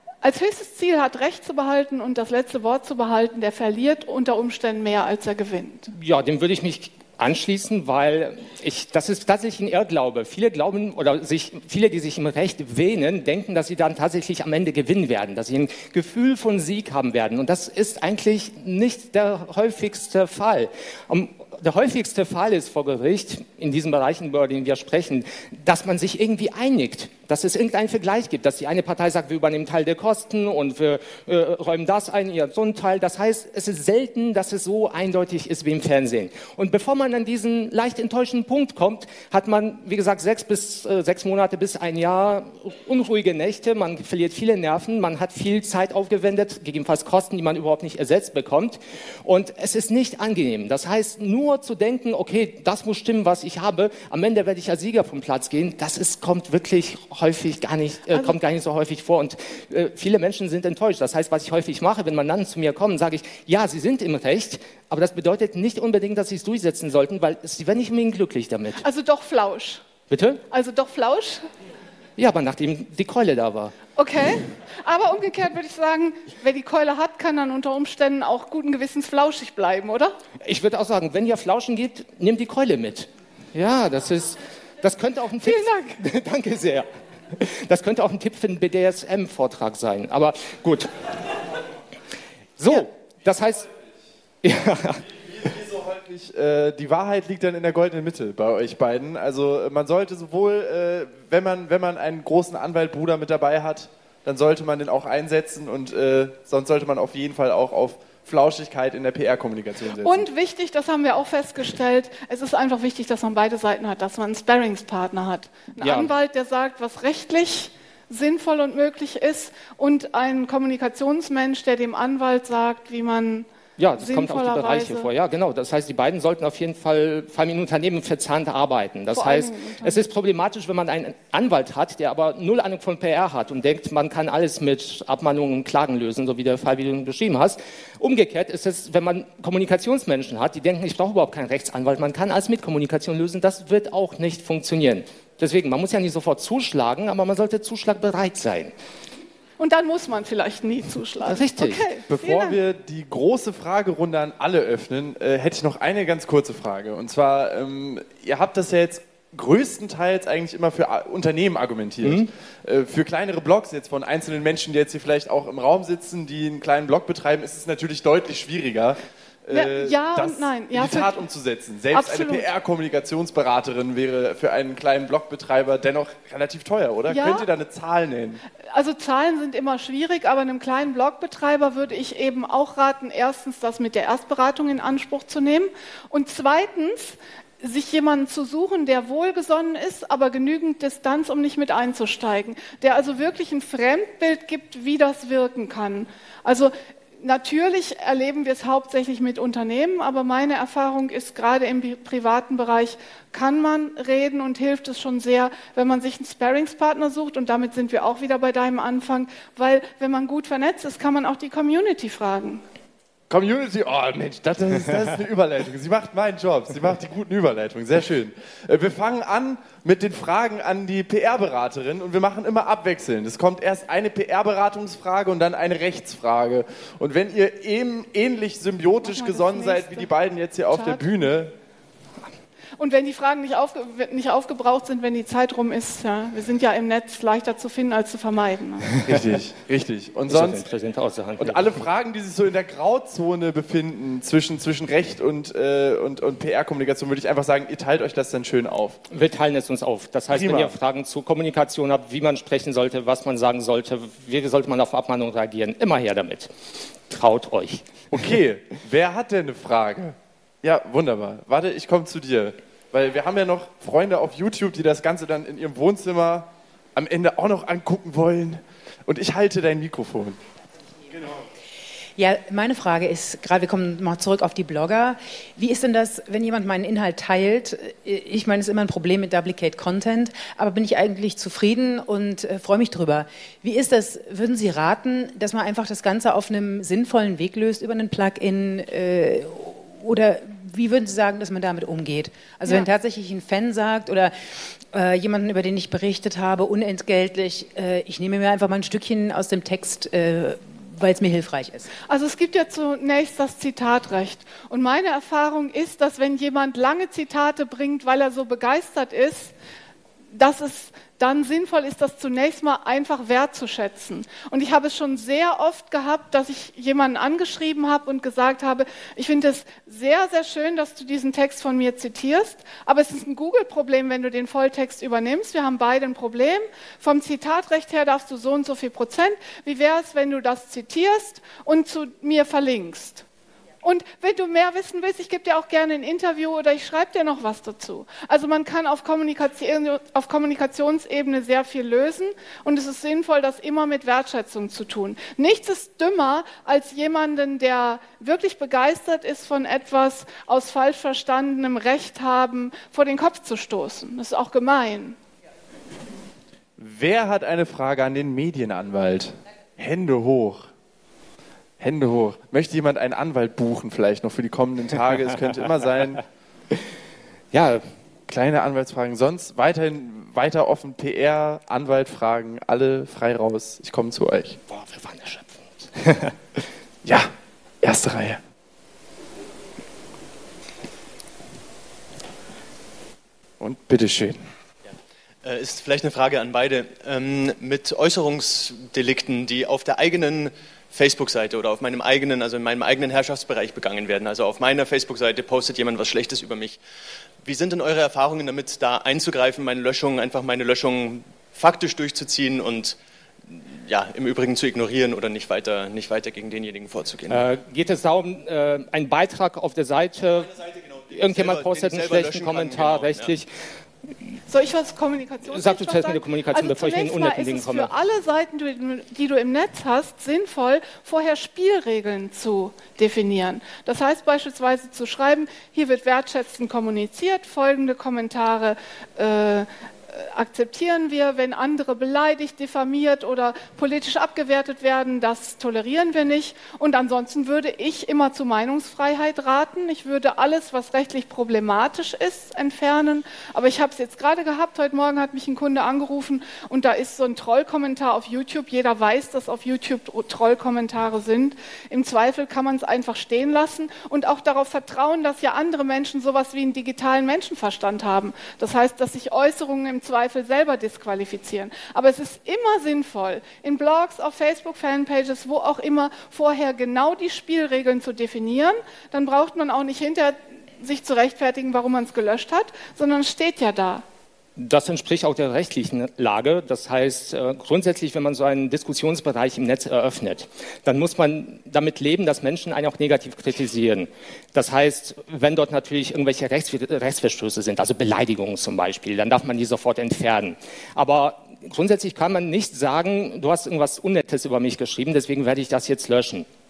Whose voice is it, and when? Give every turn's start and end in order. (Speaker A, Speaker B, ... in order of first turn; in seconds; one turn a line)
Speaker A: 0.2-5.9
Speaker B: 5.9-68.8
Speaker A: 68.8-69.8
Speaker B: 70.1-70.4
Speaker A: 70.5-71.4
Speaker B: 72.2-73.8
Speaker A: 74.0-80.2
Speaker B: 80.4-90.9
Speaker A: 85.4-86.0
Speaker B: 92.6-93.7
Speaker B: 94.4-95.1
Speaker C: 95.3-110.3
Speaker A: 110.0-125.1
Speaker B: 115.8-116.1
Speaker B: 123.8-148.7
Speaker A: 129.1-130.1
Speaker A: 149.6-152.6
Speaker B: 151.2-151.8
Speaker C: 152.1-178.4
Speaker B: 162.0-162.3
Speaker A: 169.5-171.3
Speaker A: 171.9-172.5
Speaker A: 177.1-177.5
Speaker A: 178.7-212.6
Speaker C: 213.3-231.5
Speaker A: 229.0-230.1
Speaker A: 230.7-231.2
Speaker A: 232.8-238.9
Speaker C: 239.0-240.6
Speaker B: 240.3-241.7
Speaker C: 241.4-249.0
Speaker B: 249.1-256.5
Speaker C: 250.3-250.8
Speaker B: 257.1-257.9
Speaker C: 258.1-270.4
Speaker D: 272.2-294.3
Speaker D: 294.9-301.9
Speaker A: 302.1-309.5
Speaker A: 310.3-333.3
Speaker A: 333.8-355.2
Speaker C: 356.8-360.6
Speaker C: 361.8-366.2
Speaker B: 367.5-367.9
Speaker C: 368.3-374.6
Speaker B: 374.7-376.6
Speaker C: 377.1-377.3
Speaker C: 377.8-378.4
Speaker C: 383.6-384.4
Speaker E: 385.4-396.8
Speaker E: 397.4-407.4
Speaker B: 407.3-413.5
Speaker E: 410.7-413.3
Speaker A: 414.5-474.0
Speaker B: 415.5-417.9
Speaker B: 474.6-496.5